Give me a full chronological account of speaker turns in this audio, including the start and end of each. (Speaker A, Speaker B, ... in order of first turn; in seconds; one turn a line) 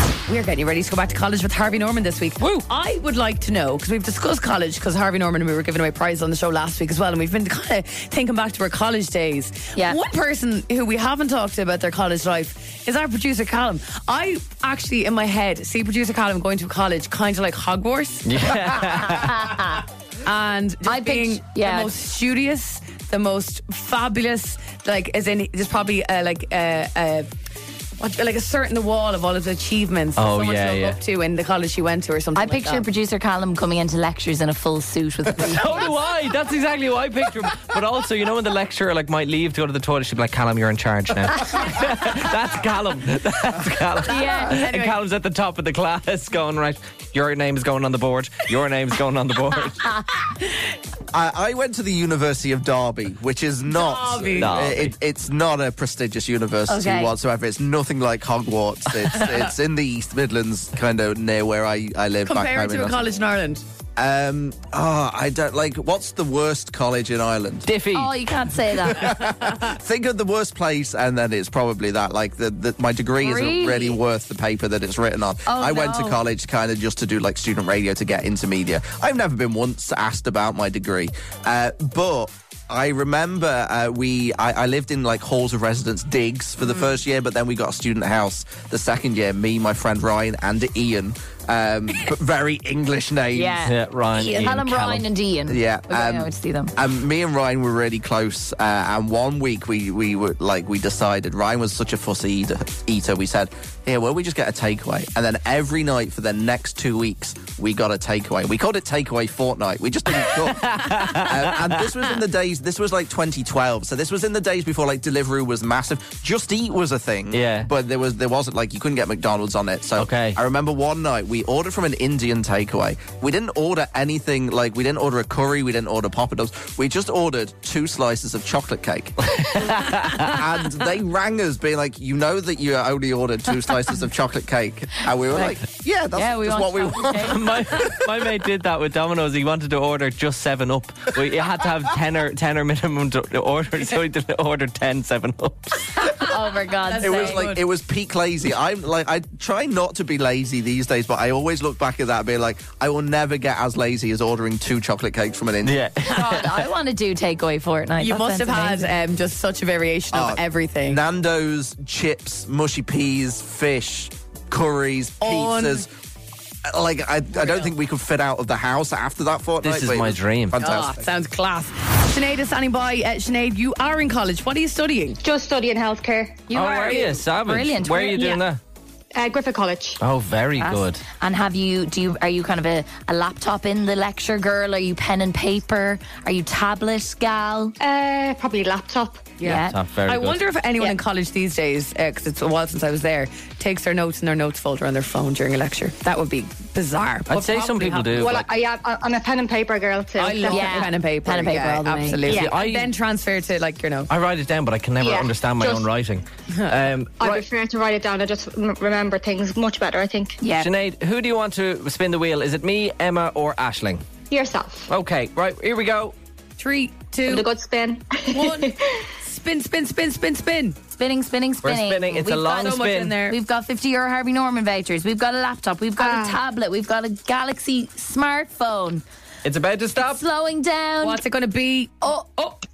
Speaker A: 0.3-18.5
Speaker B: 18.2-19.5
Speaker C: 19.0-19.8
Speaker A: 20.2-27.3
Speaker C: 20.9-21.9
Speaker A: 28.0-32.8
Speaker B: 30.2-31.0
Speaker C: 32.4-35.9
Speaker B: 35.4-49.8
Speaker A: 44.0-45.0
Speaker C: 44.1-44.6
Speaker D: 51.1-63.1
Speaker A: 53.7-54.7
Speaker B: 54.4-54.9
Speaker C: 56.7-57.1
Speaker A: 62.3-63.6
Speaker D: 64.0-67.7
Speaker B: 67.7-68.1
Speaker C: 67.9-69.2
Speaker D: 68.8-93.6
Speaker C: 73.2-74.0
Speaker C: 75.5-76.2
Speaker C: 93.3-96.8
Speaker B: 93.7-95.1
Speaker D: 95.5-138.2
Speaker B: 110.3-111.9
Speaker B: 117.3-117.7
Speaker B: 120.0-120.4
Speaker B: 129.3-130.4
Speaker C: 135.3-135.6
Speaker C: 136.1-137.5
Speaker B: 137.2-146.3
Speaker C: 146.0-147.5
Speaker A: 146.8-147.6
Speaker D: 147.0-156.0
Speaker B: 155.6-156.7
Speaker C: 156.1-158.9
Speaker A: 158.0-161.0
Speaker D: 160.1-165.9
Speaker A: 165.2-165.9
Speaker D: 166.7-171.1
Speaker A: 167.3-167.7
Speaker B: 169.6-170.8
Speaker A: 170.6-175.2
Speaker E: 175.2-176.5
Speaker C: 176.5-178.4
Speaker B: 176.5-178.6
Speaker E: 179.2-180.0
Speaker B: 180.0-181.0
Speaker C: 180.6-187.7
Speaker E: 187.8-189.4
Speaker A: 189.4-198.2
Speaker C: 189.4-189.8
Speaker B: 189.5-190.4
Speaker B: 197.3-198.5
Speaker E: 198.1-200.9
Speaker A: 200.2-204.1
Speaker C: 200.5-202.5
Speaker B: 202.2-202.9
Speaker B: 204.1-207.5
Speaker E: 205.0-205.9
Speaker E: 207.2-210.4
Speaker C: 210.4-210.7
Speaker B: 210.6-214.0
Speaker E: 214.3-214.9
Speaker B: 214.9-216.2
Speaker A: 216.6-217.5
Speaker E: 217.3-219.1
Speaker A: 218.3-220.8
Speaker C: 220.9-229.0
Speaker B: 221.6-223.2
Speaker A: 222.5-223.4
Speaker E: 226.0-226.4
Speaker B: 229.4-230.2
Speaker C: 230.0-231.2
Speaker A: 231.0-232.5
Speaker C: 232.0-232.6